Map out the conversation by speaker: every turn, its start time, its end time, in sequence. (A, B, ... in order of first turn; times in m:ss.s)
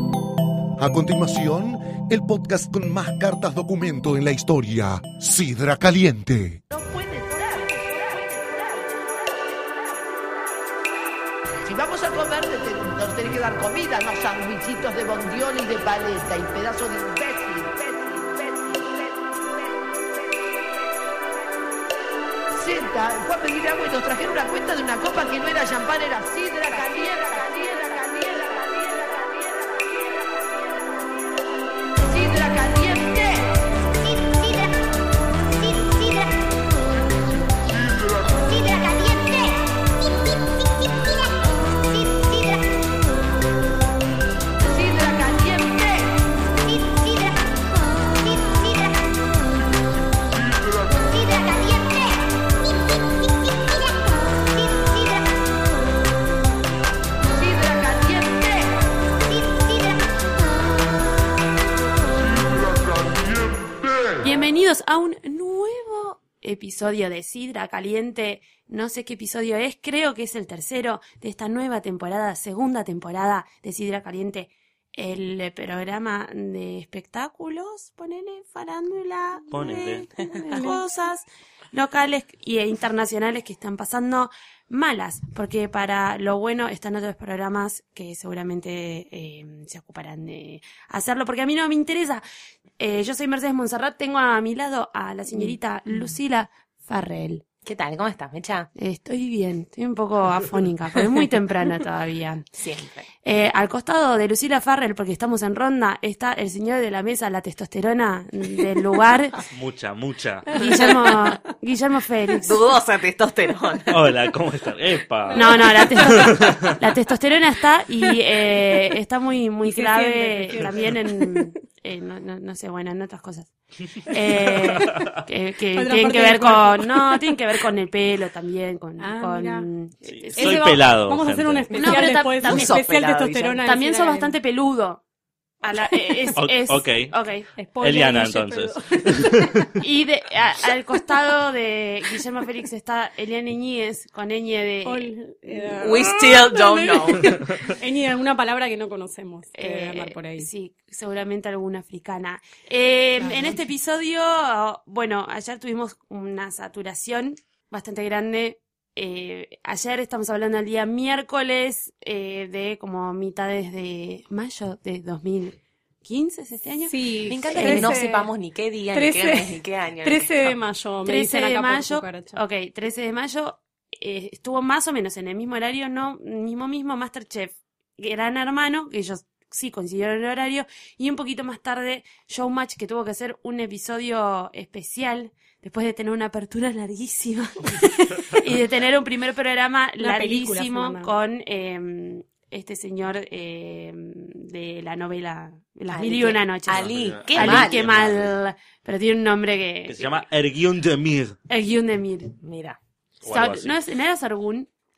0:00.8-0:06.6 A
0:06.7-0:10.2 B
0:11.7-0:20.6 B
0:22.5-0:31.4 B
0:32.0-0:34.7 B
0:35.6-0:36.3 B
0:37.8-0:39.6 B
0:44.6-0:47.3 B
0:48.4-0:48.7 B
0:50.7-0:52.1 B
0:57.2-0:58.8 B
1:04.2-1:32.2 C
1:19.5-1:20.1 D
1:20.3-1:20.8 E
1:32.8-1:37.4 C
1:37.6-1:38.7 F
1:38.8-1:42.4 C
1:42.6-1:43.1 F
1:43.2-1:49.4 C
1:49.5-1:50.9 D
1:50.5-1:51.4 E
1:50.6-1:52.6 C
1:52.4-1:54.0 F
1:53.9-1:56.7 D
1:55.3-1:56.3 E
1:55.3-2:03.5 C
1:59.7-2:01.5 E
2:04.0-2:10.8 C
2:04.1-2:04.8 E
2:05.7-2:07.4 E
2:09.0-2:09.7 E
2:10.1-2:12.0 D
2:10.3-2:14.4 E
2:11.7-2:12.8 C
2:12.4-2:13.6 F
2:13.6-2:15.0 C
2:15.6-2:17.5 C
2:15.9-2:16.3 E
2:16.4-2:17.1 D
2:17.6-2:19.7 E
2:17.8-2:19.7 D
2:19.8-2:25.1 C
2:24.8-2:30.5 E
2:25.7-2:27.4 F
2:29.5-2:48.0 C
2:33.2-2:33.6 E
2:46.9-2:48.3 E
2:47.3-2:50.4 F
2:48.9-2:52.4 E
2:51.0-3:20.2 C
3:10.0-3:11.1 E
3:15.9-3:18.0 F
3:16.7-3:18.3 D
3:19.9-3:21.4 D
3:21.5-3:22.4 C
3:22.4-3:22.8 F
3:23.2-3:23.7 D
3:23.2-3:24.7 C